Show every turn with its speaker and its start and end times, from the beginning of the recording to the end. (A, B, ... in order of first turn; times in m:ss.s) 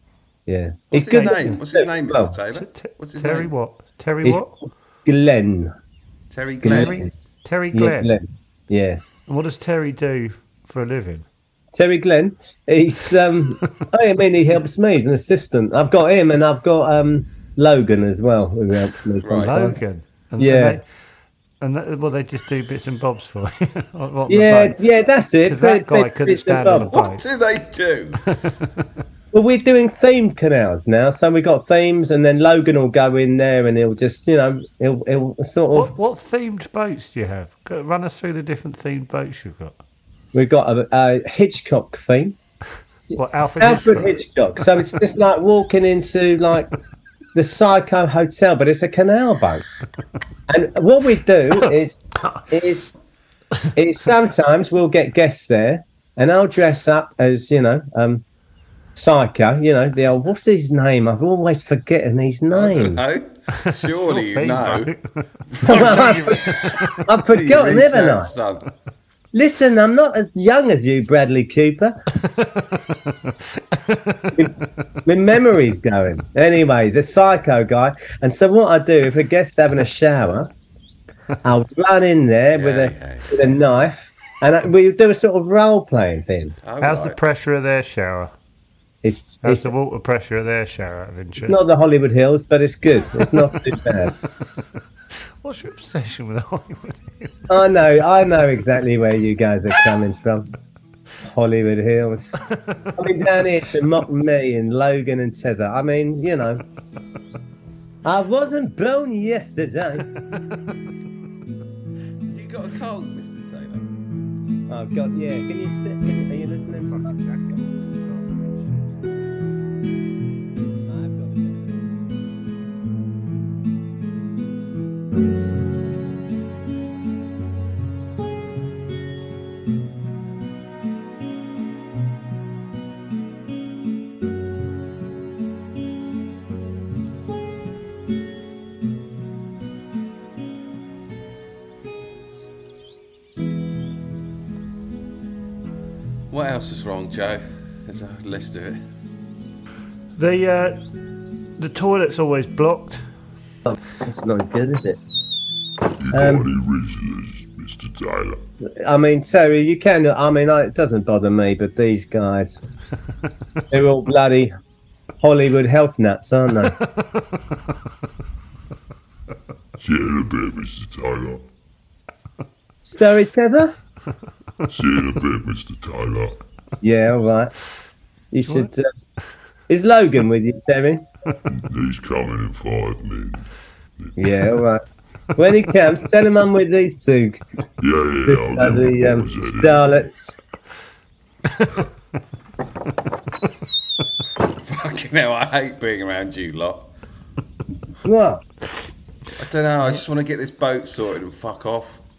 0:00.5-0:02.4 A
0:00.9-0:03.5 B
0:01.1-0:01.6 C
0:02.5-0:04.5 C
0:05.1-0:05.7 A
0:06.3-0:07.0 B
0:06.6-0:07.1 A
0:06.7-0:08.2 C
0:07.7-0:09.0 A
0:09.3-0:11.3 C
0:11.7-0:19.8 A
0:19.2-0:19.6 B
0:19.4-0:20.8 C
0:20.4-0:20.8 A
0:21.6-0:24.8 C
0:24.3-0:26.9 A
0:25.5-0:27.2 C
0:26.8-0:28.2 B
0:28.2-0:28.9 C
0:29.3-0:35.9 A
0:35.7-0:39.8 C
0:40.3-0:42.4 A
0:43.1-0:46.7 A
0:43.2-0:44.2 C
0:47.3-0:49.7 A
0:50.5-0:52.9 A
0:53.8-0:58.2 A
0:59.0-1:03.0 A
1:02.5-1:04.9 B
1:03.6-1:07.0 C
1:05.6-1:06.8 B
1:05.6-1:06.5 A
1:07.0-1:08.3 A
1:07.3-1:08.7 B
1:09.3-1:12.0 A
1:12.3-1:14.4 C
1:14.3-1:20.5 A
1:21.4-1:26.6 A
1:22.6-1:23.3 B
1:26.6-1:27.2 B
1:26.8-1:28.3 C
1:29.0-1:29.7 A
1:29.4-1:31.6 C
1:31.4-1:34.1 A
1:35.4-1:37.5 C
1:37.5-1:40.5 A
1:41.2-1:42.4 A
1:43.0-1:46.6 A
1:48.0-1:50.1 A
1:52.3-1:53.9 B
1:54.7-1:57.2 A
1:56.9-1:58.9 C
2:00.9-2:01.9 A
2:26.3-2:28.8 B
2:30.2-2:30.8 C
2:31.6-2:33.0 C
2:33.6-2:35.0 A
2:36.0-2:38.4 D
2:36.1-2:36.5 A
2:38.6-2:42.6 A
2:43.7-2:44.6 A
2:45.2-2:46.8 A
2:49.8-2:51.4 D
2:52.8-2:53.8 A
2:54.7-2:56.4 D
2:56.8-2:57.5 A
2:58.3-2:58.9 A
2:58.5-2:58.7 C
2:59.7-3:01.1 A
3:01.5-3:03.5 D
3:04.0-3:04.5 D
3:04.2-3:04.8 A
3:05.4-3:07.4 A
3:07.8-3:10.0 D
3:08.3-3:10.4 A
3:11.5-3:11.8 C
3:14.6-3:16.9 B
3:18.0-3:18.4 A
3:19.4-3:22.0 B